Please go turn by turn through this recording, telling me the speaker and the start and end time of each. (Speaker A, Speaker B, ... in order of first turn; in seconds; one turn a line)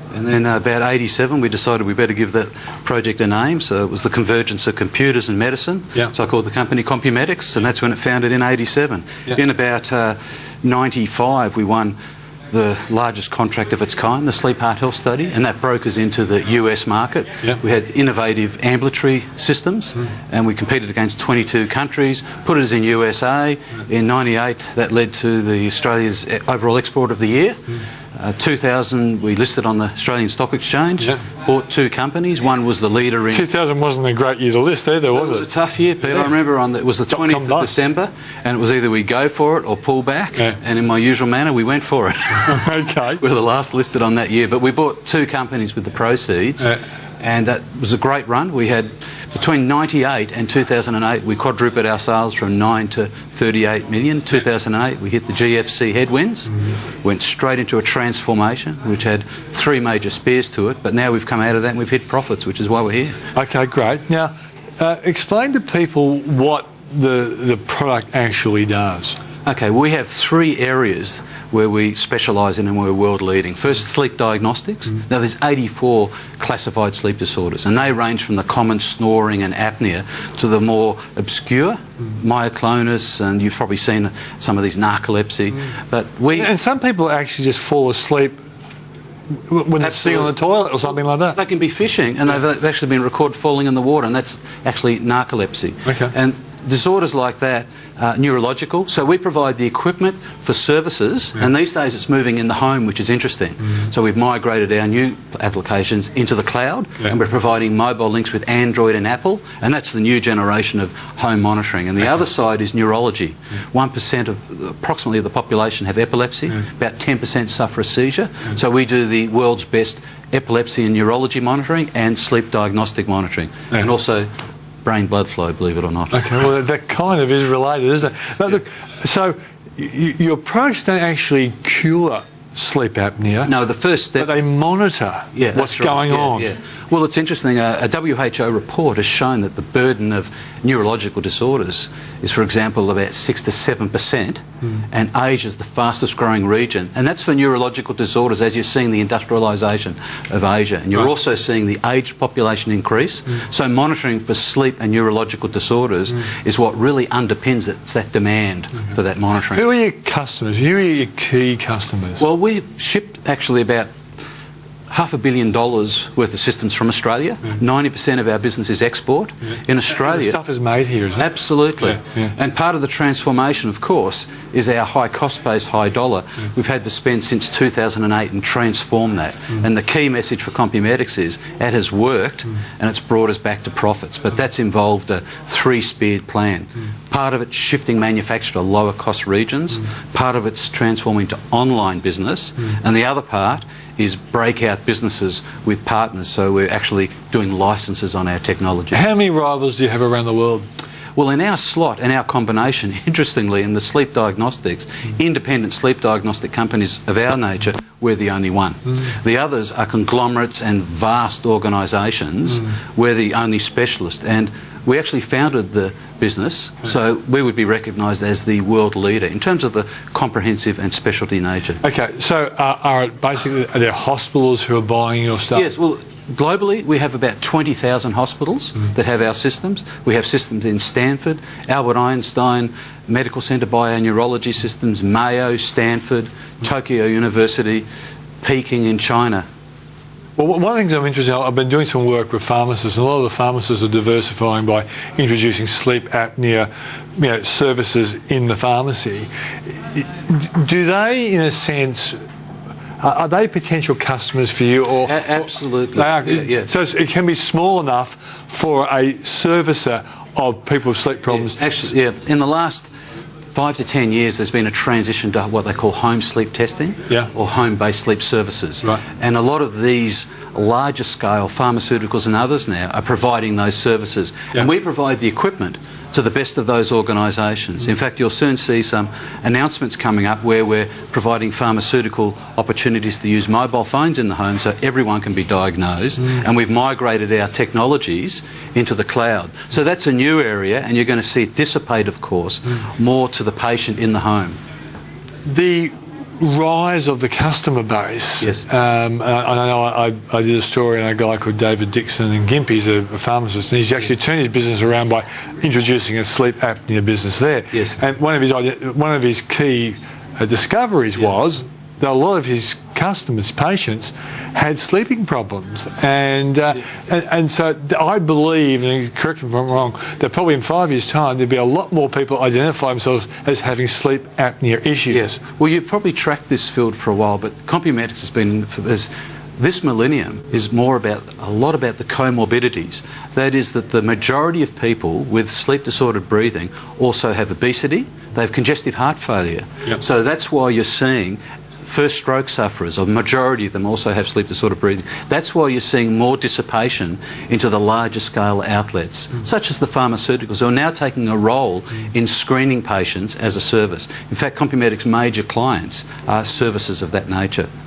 Speaker A: 0.1-11.9
Speaker A: 12.5-27.6
Speaker A: 28.1-33.5
Speaker B: 33.3-35.5
Speaker A: 35.1-63.2
Speaker B: 36.0-36.3
Speaker B: 37.1-37.7
Speaker B: 42.5-43.2
Speaker B: 63.3-69.2
Speaker A: 69.4-86.5
Speaker B: 86.3-88.4
Speaker B: 89.5-91.4
Speaker A: 89.8-90.3
Speaker A: 91.3-124.3
Speaker B: 95.9-96.1
Speaker A: 124.8-126.2
Speaker B: 126.1-133.5
Speaker A: 133.4-134.3
Speaker B: 134.2-136.5
Speaker A: 135.3-159.7
Speaker B: 159.5-162.2
Speaker A: 162.2-163.9
Speaker A: 164.9-170.4
Speaker B: 169.9-171.3
Speaker A: 171.2-199.0
Speaker B: 198.9-200.6
Speaker A: 201.2-221.8
Speaker B: 221.8-225.7
Speaker A: 225.5-237.8
Speaker A: 238.4-239.4
Speaker B: 240.4-249.3
Speaker B: 249.9-252.2
Speaker B: 253.0-261.6
Speaker A: 255.1-256.7
Speaker A: 261.3-262.9
Speaker A: 263.5-294.6
Speaker B: 295.5-325.4
Speaker A: 307.7-308.0
Speaker A: 325.1-357.7